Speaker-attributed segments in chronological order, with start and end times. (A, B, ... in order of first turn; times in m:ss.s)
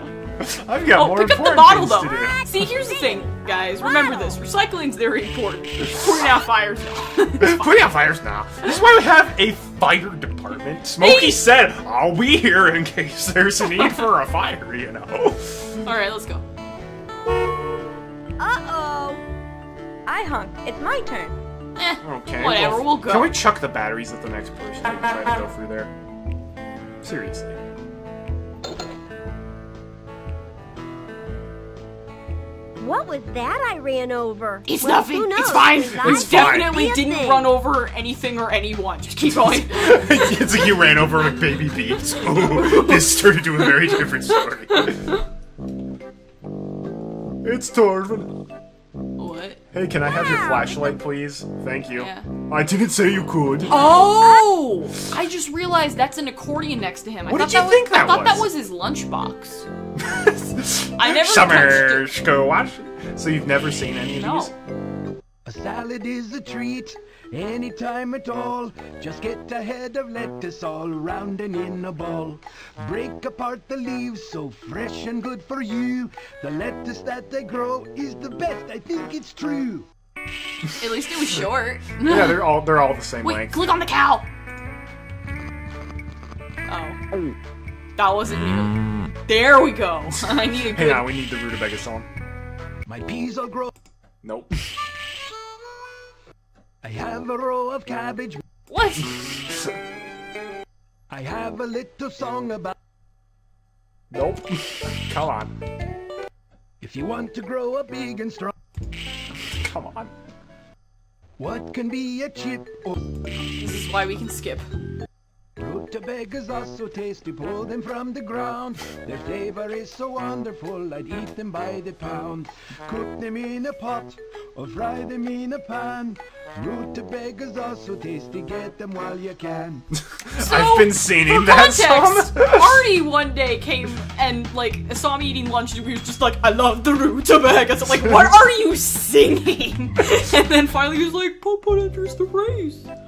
0:00.4-0:02.7 A
0:00.9-0:08.1 B
0:02.2-0:04.4 C
0:07.4-0:15.8 A
0:11.0-0:11.5 B
0:13.7-0:14.1 B
0:15.8-0:16.4 B
0:18.4-0:19.1 D
0:20.1-0:21.3 D
0:21.8-0:23.4 B
0:22.0-0:25.9 A
0:27.0-0:27.6 A
0:32.8-0:37.6 C
0:34.7-0:45.2 B
0:35.7-0:36.7 A
0:39.2-0:45.1 A
0:47.4-0:48.4 A
0:49.2-0:49.6 B
0:49.7-0:53.8 A
0:50.1-0:51.0 C
0:52.0-0:52.3 B
0:53.7-0:54.6 C
0:53.7-0:59.7 B
0:57.3-0:58.5 A
1:00.0-1:04.6 A
1:01.0-1:02.1 B
1:04.1-1:04.5 B
1:05.5-1:19.9 E
1:20.8-1:22.6 B
1:22.0-1:23.7 A
1:23.2-1:24.3 B
1:26.7-1:27.0 B
1:28.0-1:31.1 B
1:30.7-1:32.1 A
1:32.9-1:33.7 E
1:34.2-1:34.5 A
1:36.8-1:38.4 E
1:38.7-1:39.1 B
1:41.1-1:42.7 E
1:44.1-1:45.5 A
1:46.8-1:48.5 E
1:49.5-1:50.1 A
1:51.4-1:53.0 E
1:53.6-1:54.7 B
1:55.6-2:09.8 E
2:10.2-2:12.9 A
2:10.4-2:22.9 B
2:18.0-2:18.3 A